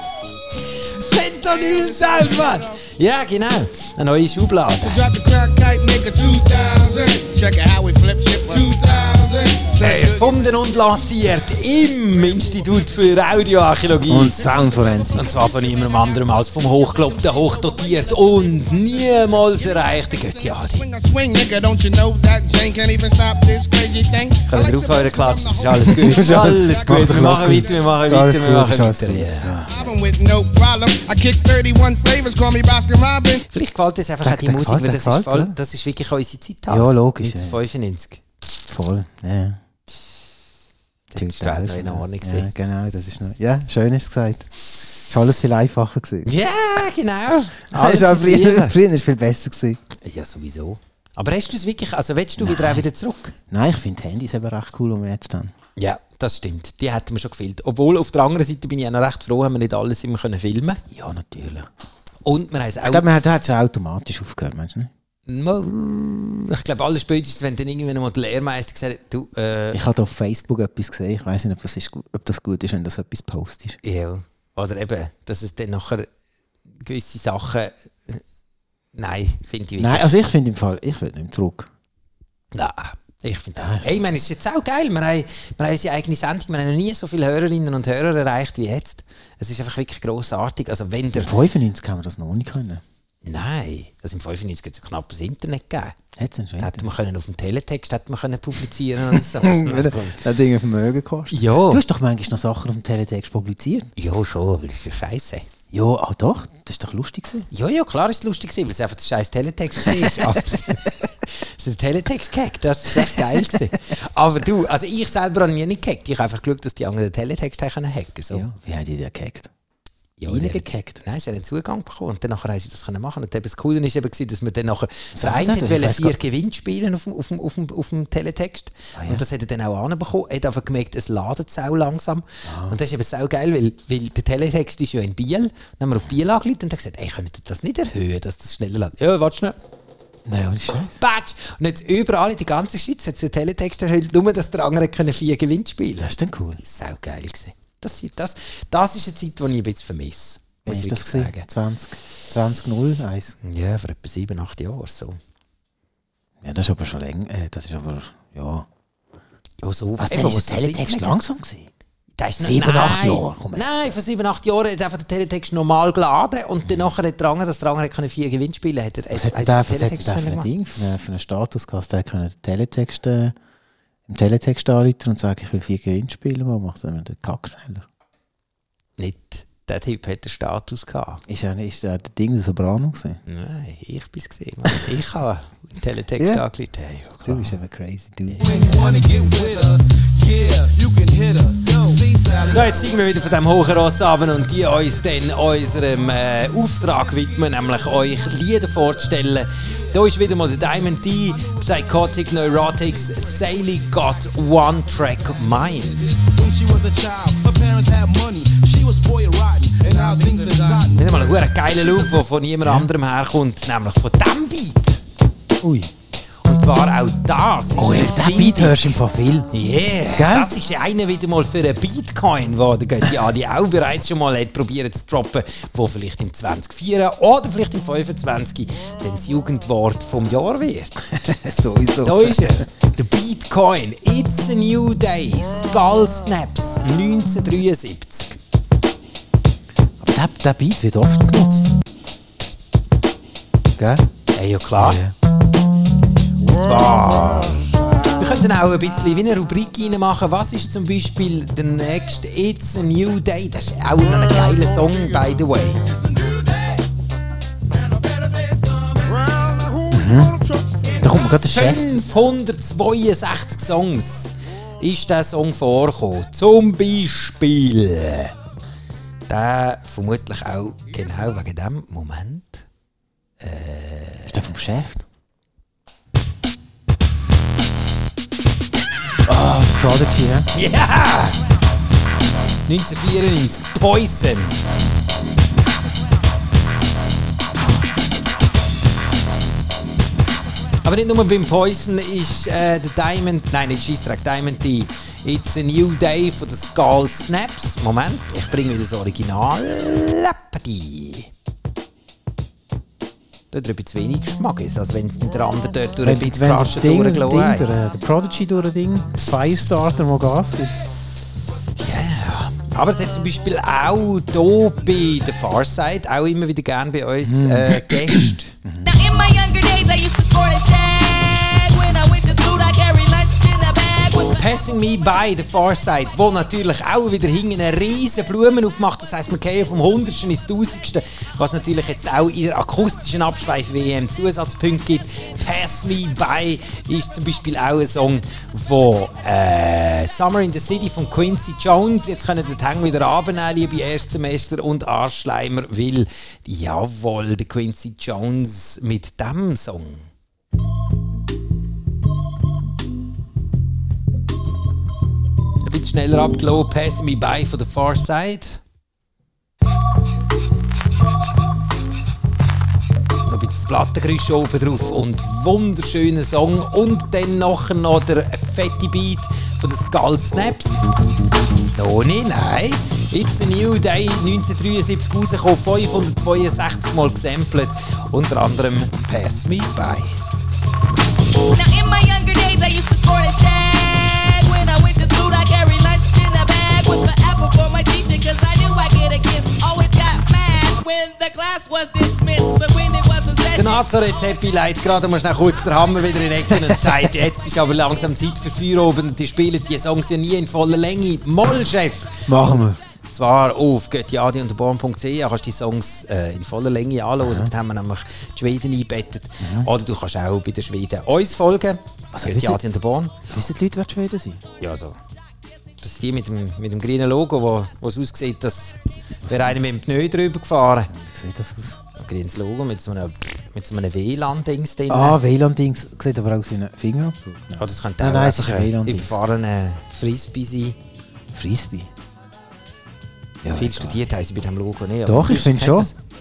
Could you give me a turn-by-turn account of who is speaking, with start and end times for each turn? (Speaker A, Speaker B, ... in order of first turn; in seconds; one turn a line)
Speaker A: 0.7-5.1
Speaker B: 1.7-2.8
Speaker B: 4.8-10.6
Speaker A: 9.8-20.9
Speaker C: 14.1-15.3
Speaker B: 14.6-27.9
Speaker A: 24.4-29.9
Speaker C: 25.9-29.8
Speaker B: 29.7-33.5
Speaker A: 33.5-38.2
Speaker C: 34.2-35.5
Speaker C: 36.7-37.6
Speaker C: 38.7-39.6
Speaker A: 41.1-42.5
Speaker C: 41.1-46.3
Speaker A: 46.2-48.8
Speaker C: 47.7-49.8
Speaker A: 49.9-53.3
Speaker C: 52.4-52.9
Speaker C: 53.5-55.5
Speaker A: 55.8-60.8
Speaker C: 60.9-61.7
Speaker A: 62.2-63.0
Speaker C: 62.8-64.9
Speaker A: 65.3-69.8
Speaker C: 69.7-73.8
Speaker A: 73.8-76.1
Speaker A: 76.8-78.2
Speaker A: 78.9-80.2
Speaker C: 79.8-81.7
Speaker A: 82.5-91.3
Speaker C: 83.6-84.1
Speaker C: 91.2-92.8
Speaker A: 93.2-96.0
Speaker C: 96.2-96.9
Speaker A: 96.6-100.2
Speaker C: 99.0-103.9
Speaker A: 101.3-101.8
Speaker A: 104.0-105.5
Speaker C: 105.7-107.5
Speaker A: 107.5-118.5
Speaker C: 109.8-110.8
Speaker C: 112.9-113.6
Speaker C: 118.3-119.5
Speaker A: 120.2-139.6
Speaker C: 120.2-121.0
Speaker C: 125.1-126.2
Speaker C: 128.9-129.2
Speaker C: 132.4-132.8
Speaker C: 140.2-141.0
Speaker A: 140.9-151.5
Speaker C: 146.0-146.6
Speaker C: 150.6-153.3
Speaker A: 153.4-155.2
Speaker C: 156.4-158.7
Speaker A: 159.6-161.2
Speaker C: 160.0-161.7
Speaker A: 162.2-170.5
Speaker C: 162.4-164.0
Speaker C: 169.1-173.3
Speaker C: 174.1-177.9
Speaker A: 179.0-181.2
Speaker C: 181.3-183.2
Speaker A: 183.3-187.6
Speaker C: 186.2-186.4
Speaker C: 187.2-189.1
Speaker D: 188.4-193.0
Speaker A: 192.4-206.2
Speaker D: 206.2-211.0
Speaker B: 209.8-211.0
Speaker A: 210.9-215.0
Speaker C: 215.6-215.9
Speaker A: 216.4-218.9
Speaker C: 217.8-220.5
Speaker A: 219.5-231.1
Speaker C: 231.0-232.6
Speaker A: 232.0-238.4
Speaker C: 240.0-241.7
Speaker C: 243.8-244.1
Speaker A: 244.3-245.0
Speaker C: 244.8-245.1
Speaker A: 246.4-255.8
Speaker C: 259.9-260.4
Speaker C: 261.0-262.0
Speaker A: 261.3-268.3
Speaker A: 269.3-272.7
Speaker A: 273.4-274.4
Speaker C: 274.3-275.0
Speaker C: 279.2-280.5
Speaker A: 280.5-281.4
Speaker A: 282.7-284.6
Speaker A: 290.8-301.3
Speaker A: 303.5-307.6
Speaker C: 306.0-310.9
Speaker A: 311.8-318.5
Speaker C: 317.2-318.9
Speaker E: 318.8-324.3
Speaker A: 324.3-350.1
Speaker A: 355.6-358.6
Speaker A: 363.3-370.9
Speaker A: 371.7-380.2
Speaker E: 381.5-393.7
Speaker A: 393.5-413.1
Speaker C: 396.5-396.9
Speaker C: 402.3-402.8
Speaker C: 407.2-407.5
Speaker C: 409.4-409.7
Speaker C: 412.1-412.6
Speaker C: 413.3-414.4
Speaker A: 414.6-415.0
Speaker A: 415.8-420.9
Speaker C: 419.2-419.6
Speaker C: 420.9-421.8
Speaker A: 421.9-425.2
Speaker C: 424.9-429.2
Speaker A: 427.6-430.8
Speaker C: 431.3-431.9
Speaker C: 433.4-434.0
Speaker A: 433.5-435.9
Speaker C: 435.1-435.9